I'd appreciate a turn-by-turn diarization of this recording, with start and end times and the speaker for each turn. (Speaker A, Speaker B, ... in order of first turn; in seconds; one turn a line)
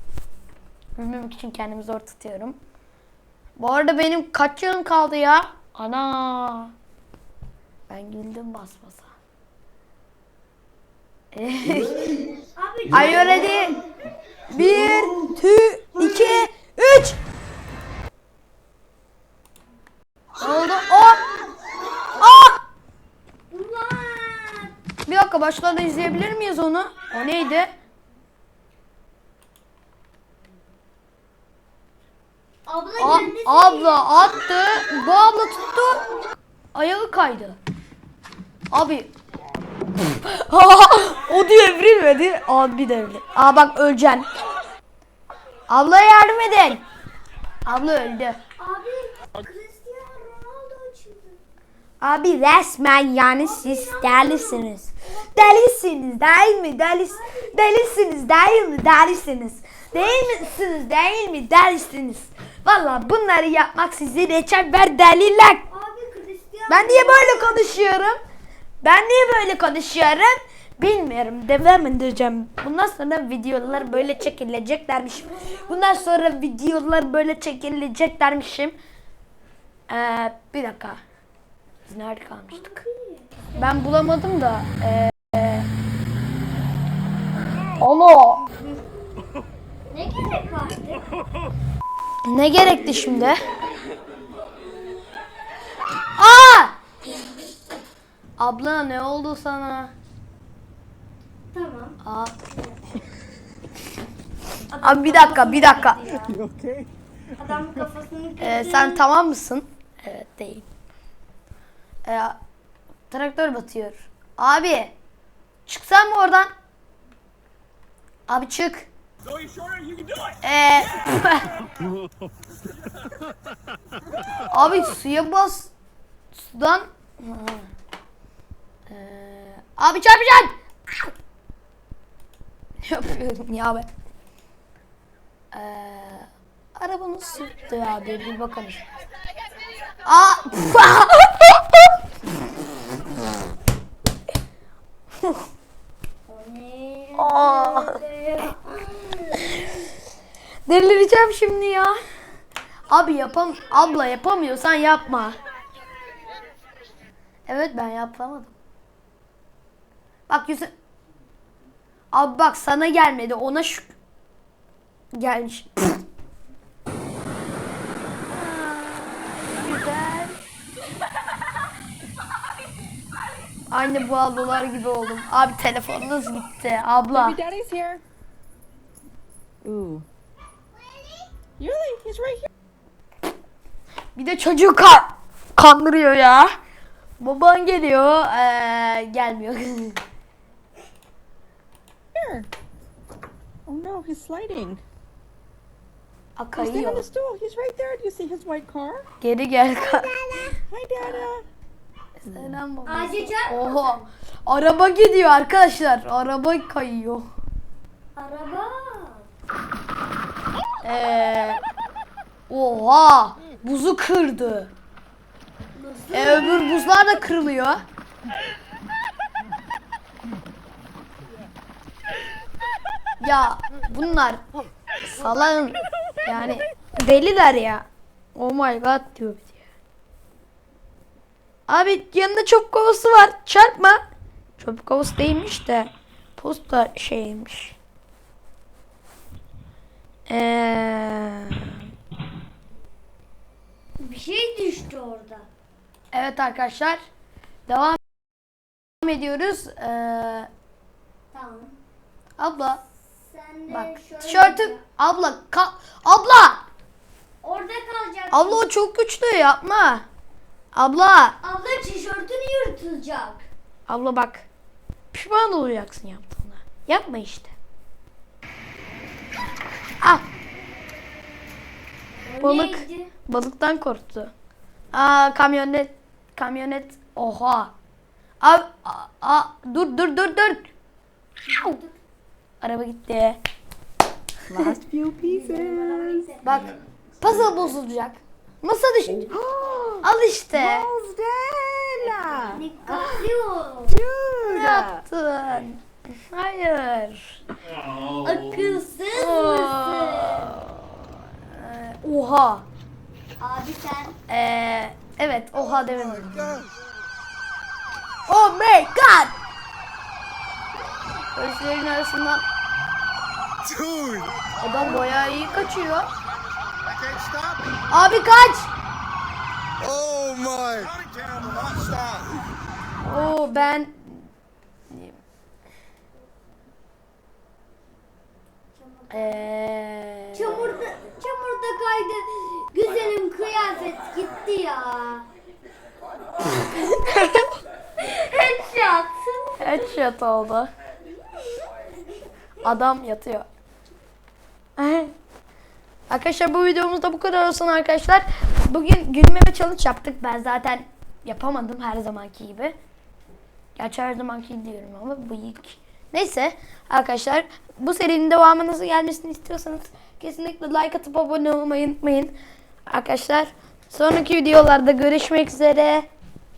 Speaker A: 1.0-2.6
Speaker A: 3.6-6.7
Speaker A: 7.9-9.1
Speaker A: 11.3-12.2
Speaker B: 12.6-13.7
Speaker A: 12.9-13.8
Speaker A: 14.5-17.2
Speaker A: 20.4-21.2
Speaker A: 22.2-22.6
Speaker B: 23.5-24.7
Speaker A: 25.1-27.7
Speaker B: 32.7-34.1
Speaker A: 33.0-36.1
Speaker A: 36.7-37.6
Speaker A: 38.7-39.1
Speaker A: 40.2-44.3
Speaker A: 45.7-46.8
Speaker A: 47.7-48.4
Speaker B: 48.6-51.4
Speaker A: 52.0-65.6
Speaker B: 53.4-55.5
Speaker B: 57.0-57.6
Speaker B: 59.9-60.5
Speaker B: 65.7-68.0
Speaker A: 66.7-68.2
Speaker A: 68.8-78.8
Speaker B: 73.7-74.1
Speaker B: 75.2-76.0
Speaker A: 79.9-81.0
Speaker A: 81.9-82.8
Speaker B: 82.5-83.8
Speaker A: 83.6-85.7
Speaker B: 87.5-88.8
Speaker A: 87.8-88.5
Speaker B: 89.9-91.1
Speaker A: 92.3-93.4
Speaker A: 96.2-96.8
Speaker A: 98.4-99.9
Speaker B: 101.5-102.0
Speaker A: 102.0-102.4
Speaker B: 102.5-102.8
Speaker B: 104.7-106.4
Speaker A: 104.8-106.0
Speaker C: 106.1-106.9
Speaker B: 107.3-109.0
Speaker A: 108.4-110.7
Speaker A: 112.1-112.4
Speaker A: 113.1-114.9
Speaker A: 115.7-116.5
Speaker A: 118.3-118.9
Speaker A: 120.4-121.5
Speaker A: 124.5-125.7
Speaker A: 126.3-127.7
Speaker A: 128.9-131.1
Speaker A: 132.8-133.9
Speaker A: 135.5-138.8
Speaker A: 140.1-141.9
Speaker B: 146.3-149.6
Speaker A: 147.2-148.0
Speaker A: 150.7-152.0
Speaker A: 152.9-155.4
Speaker A: 157.5-158.5
Speaker A: 160.3-160.7
Speaker A: 162.1-163.9
Speaker A: 165.1-166.0
Speaker A: 168.3-170.4
Speaker A: 173.7-177.4
Speaker C: 177.1-178.0
Speaker C: 179.6-180.1
Speaker C: 181.6-182.5
Speaker A: 184.2-186.5
Speaker A: 187.2-190.0
Speaker C: 192.1-192.5
Speaker C: 193.7-194.8
Speaker A: 196.4-197.1
Speaker C: 196.6-199.1
Speaker A: 199.2-200.1
Speaker C: 199.8-201.5
Speaker A: 202.2-207.3
Speaker B: 202.9-204.1
Speaker B: 208.2-209.3
Speaker A: 210.8-211.6
Speaker A: 212.5-214.7
Speaker B: 215.8-216.8
Speaker A: 216.1-217.8
Speaker A: 223.2-224.4
Speaker A: 225.0-229.6
Speaker A: 231.7-234.0
Speaker A: 234.6-237.8
Speaker A: 240.3-241.8
Speaker B: 244.0-245.5
Speaker A: 246.1-247.0
Speaker A: 247.7-248.0
Speaker A: 249.0-250.5
Speaker B: 251.3-251.8
Speaker A: 252.4-252.8
Speaker B: 253.2-254.8
Speaker A: 253.7-256.6
Speaker B: 257.4-258.6
Speaker A: 258.3-260.1
Speaker A: 260.8-261.4
Speaker B: 261.4-263.4
Speaker A: 263.9-264.5
Speaker A: 265.1-267.5
Speaker B: 272.3-273.1
Speaker A: 272.4-274.3
Speaker A: 274.9-277.7
Speaker A: 278.4-280.7
Speaker B: 281.4-282.0
Speaker A: 282.6-283.4
Speaker C: 284.5-286.3
Speaker B: 285.2-286.6
Speaker A: 286.4-289.3
Speaker C: 289.2-290.0
Speaker A: 290.0-290.9
Speaker C: 290.6-293.2
Speaker B: 292.5-294.0
Speaker C: 293.9-295.0
Speaker A: 294.5-297.4
Speaker B: 298.0-300.6
Speaker A: 299.1-302.6
Speaker B: 303.4-304.2
Speaker A: 304.3-306.6
Speaker A: 308.3-309.3
Speaker A: 311.3-312.4
Speaker D: 313.6-314.4
Speaker A: 314.6-316.1
Speaker D: 316.8-317.6
Speaker A: 317.9-318.7
Speaker D: 319.8-322.3
Speaker A: 323.0-324.3
Speaker A: 324.9-325.2
Speaker B: 328.8-329.5
Speaker A: 329.1-330.6
Speaker B: 330.3-335.3
Speaker A: 336.9-337.5
Speaker B: 338.0-340.0
Speaker A: 339.6-340.7
Speaker A: 342.6-343.5
Speaker A: 344.8-345.1
Speaker A: 346.1-352.8
Speaker A: 353.8-362.3
Speaker A: 362.9-366.1